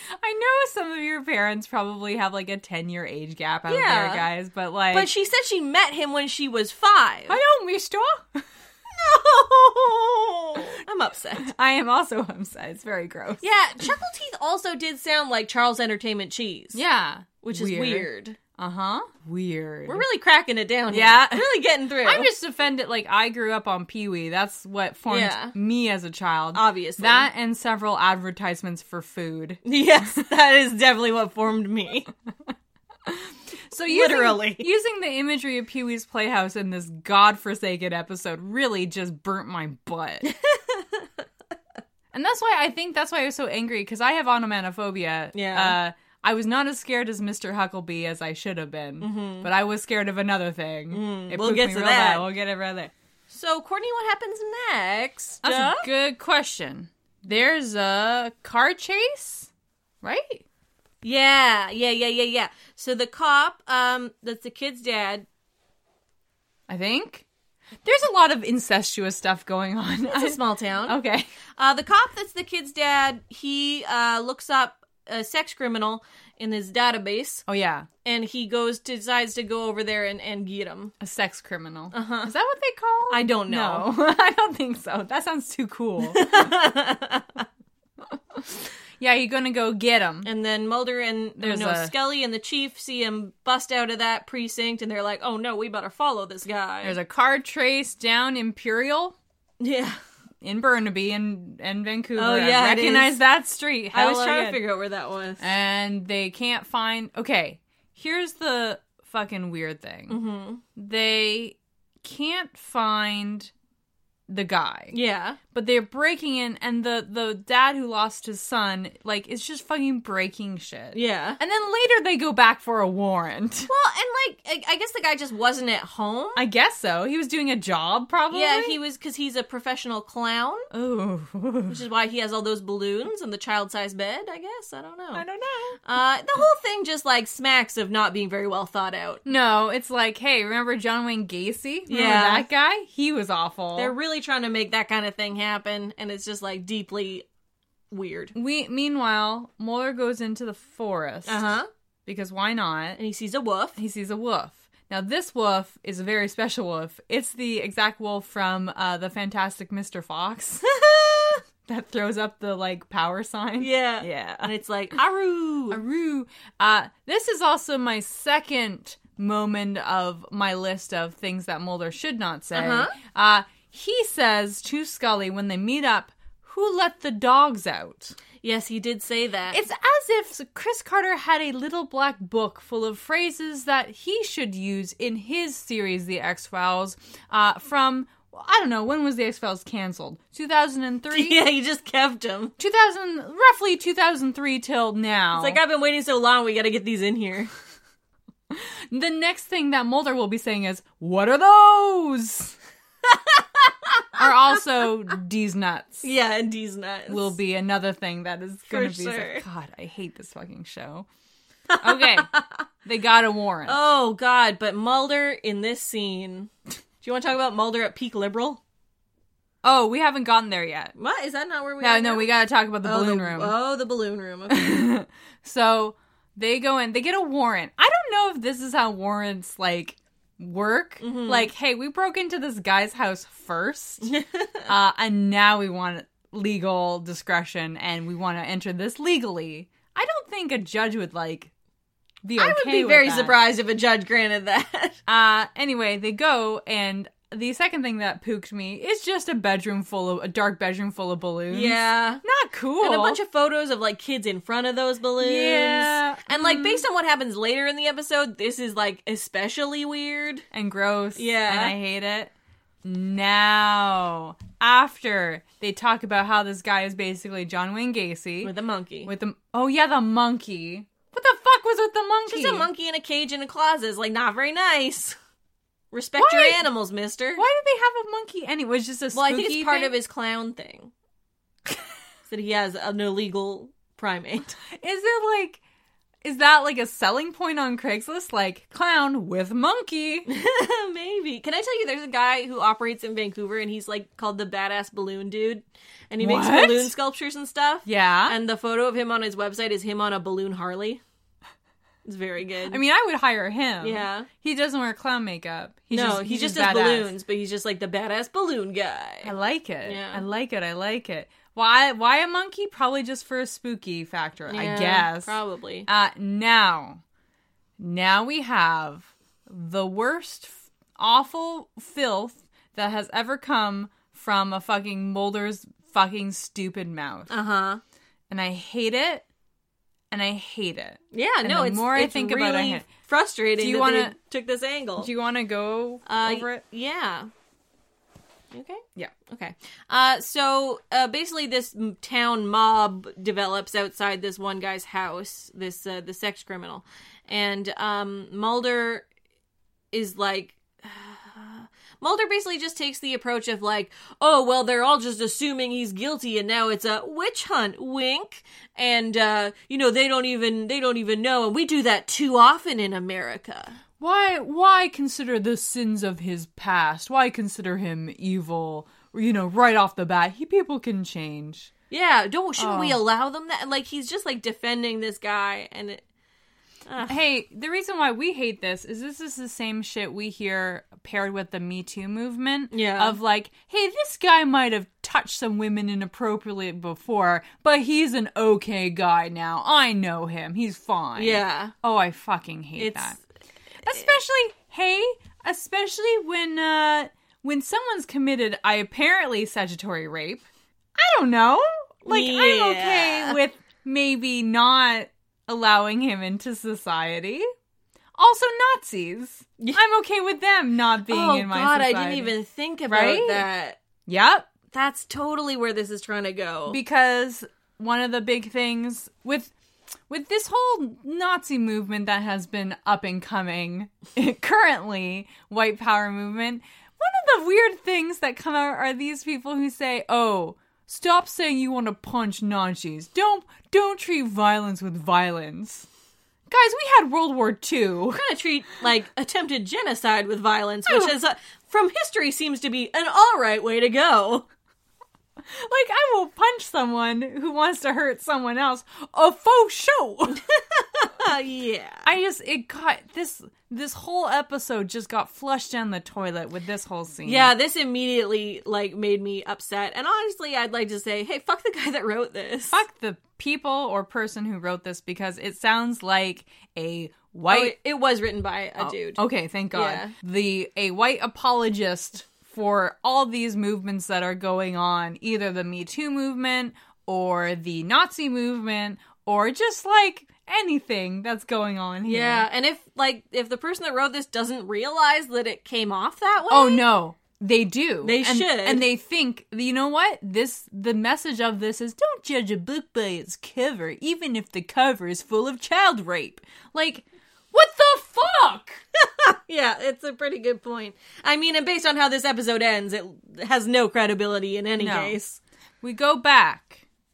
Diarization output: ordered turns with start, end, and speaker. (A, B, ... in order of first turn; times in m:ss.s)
0:00.1-0:05.1 A
0:03.7-0:04.2 B
0:04.9-0:07.4 B
0:07.3-0:08.4 A
0:08.9-0:11.5 B
0:11.4-0:13.5 A
0:13.4-0:16.8 B
0:16.7-0:20.0 A
0:17.4-0:18.4 B
0:19.9-0:22.3 B
0:20.9-0:21.4 A
0:22.0-0:30.2 A
0:25.1-0:25.6 B
0:26.5-0:27.3 B
0:29.6-0:32.1 B
0:33.1-0:40.3 A
0:33.9-0:34.7 B
0:40.3-0:41.0 B
0:42.1-0:52.9 A
0:45.3-0:45.8 B
0:49.0-0:49.5 B
0:50.9-0:52.3 B
0:53.3-0:55.9 B
0:55.4-0:59.5 A
1:00.0-1:00.4 A
1:01.0-1:05.3 B
1:06.7-1:07.2 A
1:07.8-1:11.3 A
1:10.1-1:11.0 B
1:11.6-1:17.4 B
1:17.5-1:17.9 A
1:18.0-1:20.9 B
1:21.0-1:26.5 A
1:21.9-1:22.3 B
1:23.1-1:23.9 B
1:26.0-1:27.4 B
1:28.1-1:30.3 A
1:30.2-1:37.0 B
1:31.4-1:31.9 A
1:36.8-1:39.2 A
1:39.6-1:40.0 B
1:40.4-1:44.6 A
1:42.2-1:43.2 B
1:43.9-1:45.4 B
1:45.4-1:50.2 A
1:50.1-1:50.6 B
1:50.8-1:53.5 A
1:54.3-1:54.9 A
1:54.9-1:55.4 B
1:55.5-2:03.7 A
2:00.9-2:01.4 B
2:03.7-2:06.4 B
2:06.4-2:08.8 A
2:08.3-2:10.7 B
2:10.7-2:11.8 A
2:11.7-2:15.2 B
2:15.1-2:15.8 A
2:15.8-2:19.2 B
2:19.2-2:24.0 A
2:21.9-2:22.5 B
2:23.8-2:27.3 B
2:27.9-2:28.4 B
2:28.4-2:31.4 A
2:31.3-2:31.7 B
2:32.1-2:33.0 A
2:33.0-2:33.8 B
2:33.8-2:40.6 A
2:40.7-2:41.4 B
2:41.6-2:44.5 A
2:43.6-2:45.8 B
2:45.7-2:58.2 A
2:52.5-2:53.0 B
2:58.4-2:59.6 B
2:59.5-3:11.4 A
3:11.1-3:12.5 B
3:12.6-3:15.6 A
3:15.3-3:17.5 B
3:18.5-3:22.6 A
3:23.1-3:24.1 B
3:24.2-3:26.0 A
3:26.0-3:27.4 B
3:27.1-3:31.1 A
3:28.7-3:29.4 B
3:31.7-3:32.6 B
3:31.8-3:32.3 A
3:32.8-3:33.8 A
3:33.7-3:38.6 B
3:39.6-3:40.9 A
3:41.0-3:42.3 B
3:41.8-3:43.6 A
3:42.8-3:44.8 B
3:44.5-3:54.1 A
3:51.0-3:51.5 B
3:54.0-3:54.7 B
3:54.7-4:01.5 A
4:02.2-4:03.4 A
4:02.4-4:05.0 B
4:05.1-4:13.2 A
4:11.5-4:12.2 B
4:12.8-4:20.4 B
4:15.2-4:16.8 A
4:20.5-4:22.3 A
4:21.2-4:21.8 B
4:22.8-4:28.5 A
4:28.4-4:29.1 B
4:29.1-4:32.7 A
4:32.3-4:35.2 B
4:35.9-4:37.4 B
4:36.2-4:36.7 A
4:37.4-4:40.0 A
4:39.1-4:40.9 B
4:42.3-4:44.6 B
4:44.7-4:45.6 A
4:46.2-4:50.3 A
4:50.3-5:01.0 B
4:56.2-4:56.9 A
4:57.9-4:58.4 A
5:02.0-5:02.8 B
5:02.7-5:07.1 A
5:03.8-5:04.3 B
5:05.9-5:09.3 B
5:09.2-5:15.3 A
5:09.8-5:10.2 B
5:14.5-5:15.9 B
5:15.9-5:17.0 A
5:17.8-5:27.3 A
5:27.3-5:27.8 B
5:28.3-5:29.3 A
5:30.1-5:32.9 A
5:31.1-5:35.1 B
5:33.6-5:34.2 A
5:35.0-5:36.6 A
5:36.1-5:37.3 B
5:38.5-5:49.1 B
5:49.9-6:03.8 B
6:04.0-6:11.7 A
6:11.9-6:16.0 B
6:12.6-6:13.0 A
6:16.9-6:17.2 B
6:17.1-6:33.2 A
6:22.7-6:23.2 B
6:31.2-6:31.7 B
6:32.8-6:33.2 B
6:33.8-6:40.4 A
6:41.0-6:47.5 A
6:42.1-6:43.4 B
6:48.2-6:52.3 A
6:51.1-6:53.8 B
6:52.9-6:53.5 A
6:54.1-6:54.5 A
6:54.7-6:56.8 B
6:56.7-6:59.5 A
7:00.1-7:15.9 A
7:16.5-7:18.2 A
7:18.1-7:24.5 B
7:20.9-7:21.1 A
7:25.4-7:30.4 A
7:30.4-7:32.1 B
7:32.0-7:37.5 A
7:37.2-7:42.8 B
7:42.7-7:47.8 A
7:47.5-7:49.2 B
7:48.8-8:02.5 A
7:49.7-7:50.1 B
8:02.1-8:06.8 B
8:06.5-8:18.8 A
8:08.0-8:08.8 B
8:19.0-8:25.4 B
8:24.8-8:25.2 A
8:25.8-8:26.8 A